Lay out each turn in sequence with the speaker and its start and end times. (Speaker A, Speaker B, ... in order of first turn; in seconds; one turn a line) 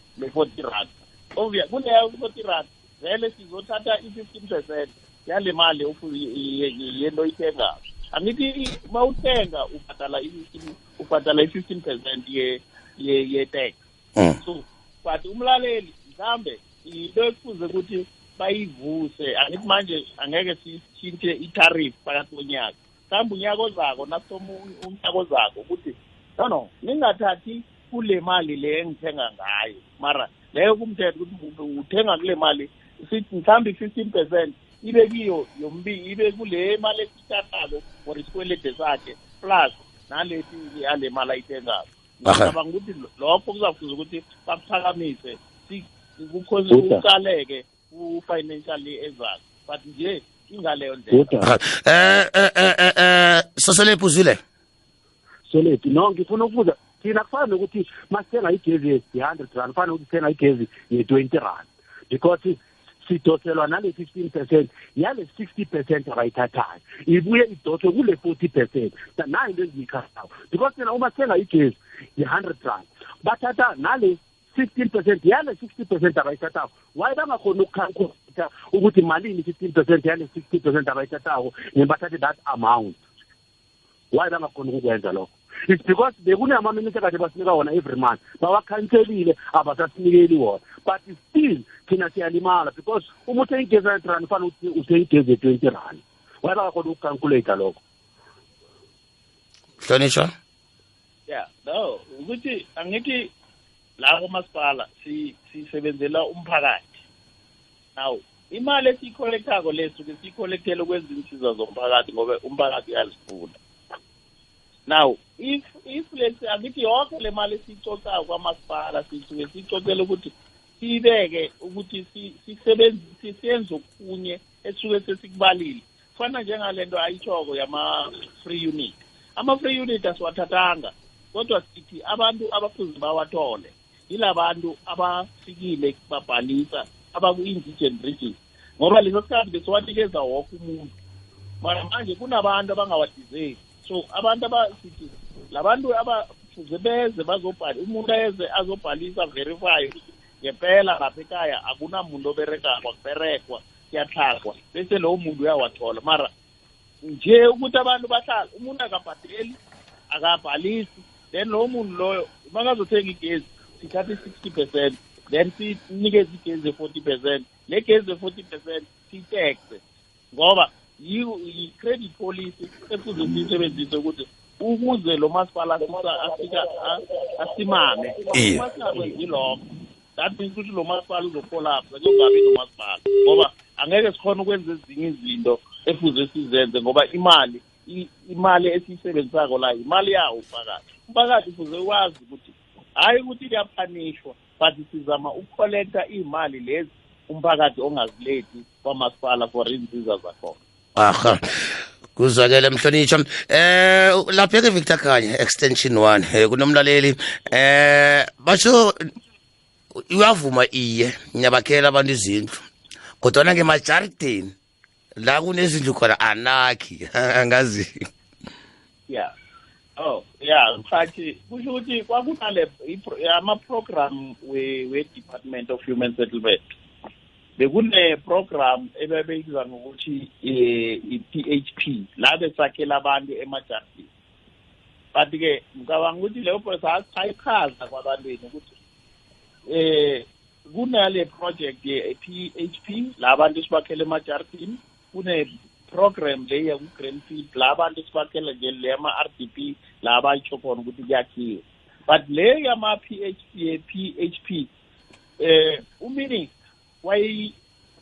Speaker A: 0.2-13.8
Speaker A: 14.4-51.3
Speaker B: 42.2-42.5
Speaker C: 51.1-51.5
Speaker B: 51.4-54.4
Speaker C: 55.5-83.0
Speaker C: 84.1-97.8
Speaker B: 99.8-100.3
Speaker A: 101.3-103.3
Speaker A: 104.0-106.9
Speaker A: 108.0-113.6
Speaker A: 114.9-140.9
Speaker A: 141.6-156.3
Speaker A: 157.0-159.6
Speaker A: 160.1-169.8
Speaker A: 170.3-179.6
Speaker B: 178.3-178.6
Speaker A: 180.2-200.6
Speaker B: 201.0-209.0
Speaker B: 210.1-212.6
Speaker B: 213.2-214.5
Speaker B: 215.2-218.0
Speaker A: 220.0-226.6
Speaker A: 227.6-234.1
Speaker A: 235.1-238.8
Speaker A: 239.7-254.7
Speaker A: 255.4-256.5
Speaker A: 257.0-257.5